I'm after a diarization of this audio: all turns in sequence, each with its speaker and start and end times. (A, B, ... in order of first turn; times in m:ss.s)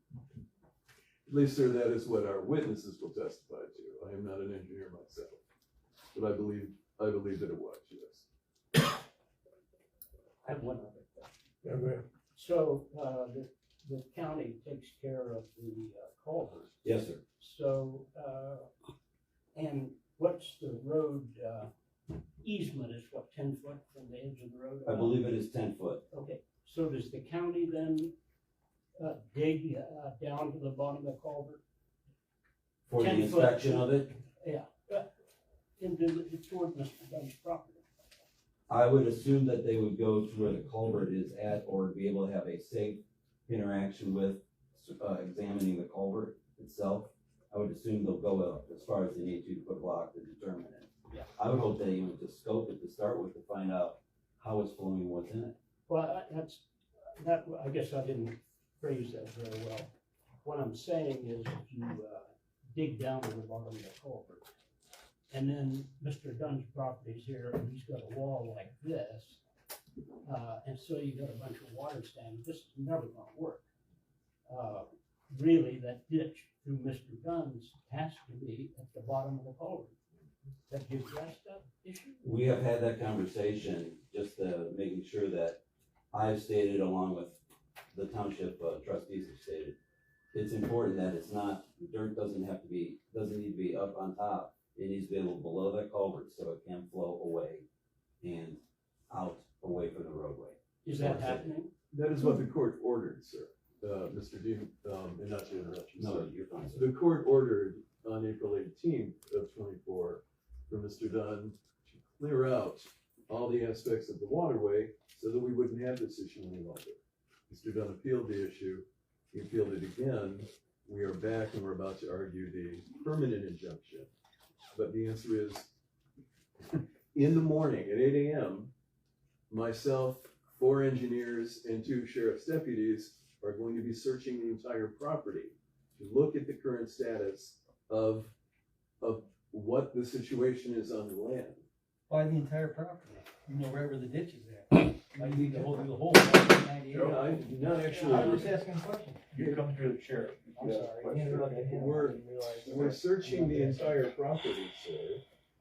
0:01.2-0:05.4 A
0:06.1-0:08.2 A
0:10.4-0:11.3 B
0:11.6-0:12.0 C
0:12.3-0:16.8 B
0:16.8-0:17.2 D
0:17.4-0:18.7 B
0:19.5-0:21.7 B
0:22.4-0:25.2 B
0:24.8-0:26.0 D
0:26.1-0:28.1 B
0:29.0-0:31.6 B
0:32.9-0:34.1 D
0:33.0-0:35.1 B
0:35.8-0:37.8 B
0:38.7-0:55.6 D
0:55.9-0:56.6 B
0:57.2-0:59.9 B
1:00.4-1:04.5 B
1:05.3-1:09.4 B
1:10.2-1:13.6 B
1:14.5-1:19.9 B
1:20.7-1:22.2 B
1:22.2-1:25.6 D
1:26.1-1:27.4 D
1:27.9-1:29.8 D
1:30.3-1:37.6 D
1:38.2-1:41.5 D
1:40.8-1:41.7 B
1:41.9-2:04.1 A
1:46.0-1:46.9 D
2:04.7-2:05.7 A
2:06.7-2:08.7 A
2:09.5-2:18.3 A
2:19.0-2:21.6 A
2:22.1-2:33.8 E
2:25.2-2:25.5 A
2:26.9-2:27.3 C
2:26.9-2:28.7 A
2:29.3-2:32.9 C
2:29.4-2:29.6 A
2:31.4-2:35.2 A